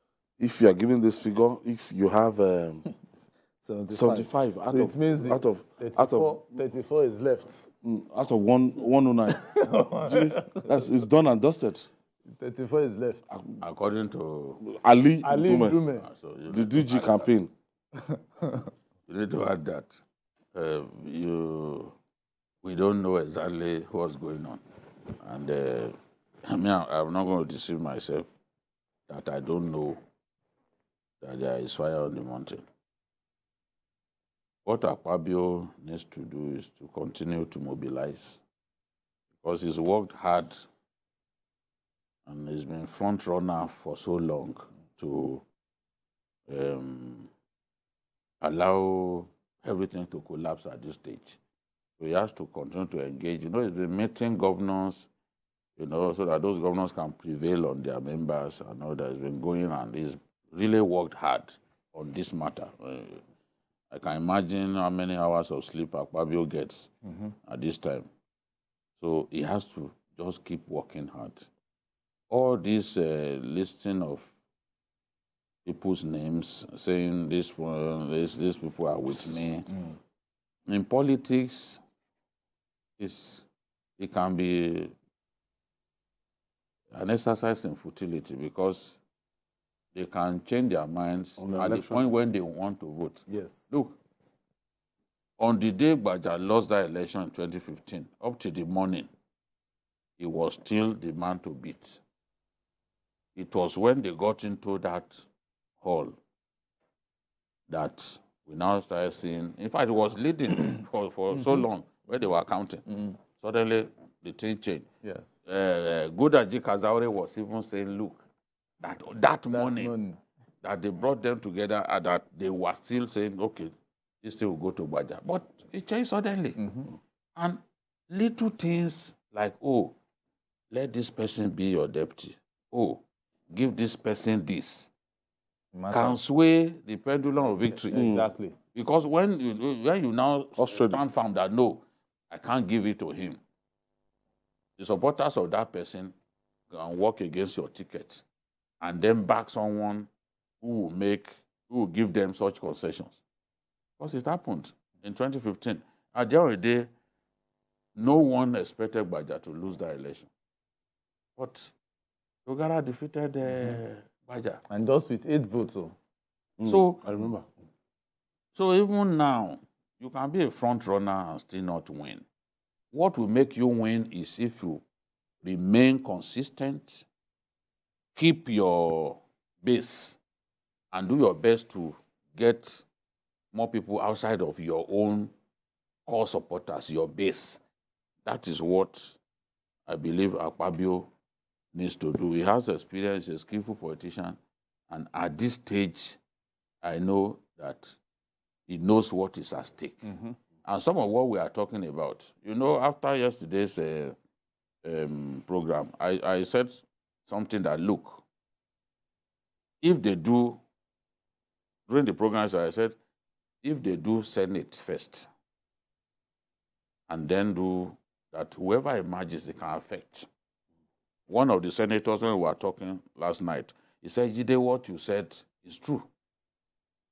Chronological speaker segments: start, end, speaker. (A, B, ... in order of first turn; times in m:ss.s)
0:00.4-0:02.9 A
0:03.6-0:07.7 B
0:03.9-0:06.4 A
0:07.8-0:11.9 A
0:09.4-0:10.7 B
0:12.3-0:13.4 B
0:13.3-0:13.6 A
0:13.6-0:14.6 C
0:14.6-0:15.8 A
0:15.2-0:16.1 B
0:15.8-0:17.4 C
0:16.5-0:17.5 A
0:18.4-0:18.7 B
0:19.1-0:20.0 C
0:20.6-0:22.0 C
0:22.6-0:24.6 C
0:25.2-0:28.3 C
0:29.1-0:30.0 C
0:31.2-0:32.6 C
0:34.6-0:38.4 C
0:39.4-0:40.7 C
0:42.3-0:45.4 C
0:46.5-0:47.3 C
0:48.4-0:51.4 C
0:52.0-0:55.1 C
0:55.8-1:03.2 C
1:03.9-1:06.9 C
1:07.4-1:08.1 C
1:09.0-1:11.5 C
1:12.3-1:14.3 C
1:15.7-1:19.7 C
1:19.7-1:20.0 B
1:20.7-1:21.8 C
1:23.0-1:23.5 C
1:24.0-1:24.9 C
1:26.9-1:29.0 C
1:30.0-1:34.0 C
1:31.4-1:32.1 A
1:33.3-1:33.7 B
1:35.4-1:39.1 C
1:40.2-1:42.0 C
1:43.4-1:45.3 C
1:45.8-1:46.2 C
1:47.7-1:54.9 C
1:51.3-1:51.6 B
1:55.0-1:55.3 B
1:55.5-1:58.2 C
1:58.8-1:59.9 C
1:59.5-2:00.2 B
2:00.6-2:06.6 C
2:06.6-2:06.9 B
2:07.4-2:10.0 C
2:10.7-2:14.9 C
2:15.7-2:16.2 B
2:15.9-2:18.1 C
2:17.7-2:18.6 B
2:17.9-2:18.3 A
2:18.7-2:23.4 C
2:20.6-2:21.0 A
2:24.8-2:26.1 C
2:26.7-2:28.2 C
2:28.8-2:30.1 C
2:30.6-2:33.2 C
2:34.0-2:36.9 C
2:38.0-2:40.3 C
2:41.4-2:41.7 C
2:42.5-2:44.6 C
2:44.7-2:46.0 B
2:46.6-2:47.5 A
2:46.6-2:47.0 C
2:48.6-2:52.2 C
2:52.9-2:54.8 C
2:55.4-2:57.1 C
2:58.2-3:00.2 C
3:00.9-3:02.8 C
3:03.5-3:05.3 C
3:06.1-3:07.6 C
3:08.2-3:09.2 C
3:09.9-3:11.1 C
3:11.7-3:14.4 C
3:14.9-3:16.2 C
3:16.8-3:18.0 C
3:18.7-3:20.1 C
3:20.0-3:20.4 B
3:20.6-3:24.2 C
3:24.8-3:28.2 C
3:29.8-3:30.6 C
3:31.9-3:33.0 C
3:33.6-3:35.3 C
3:37.1-3:40.3 C
3:41.3-3:46.1 C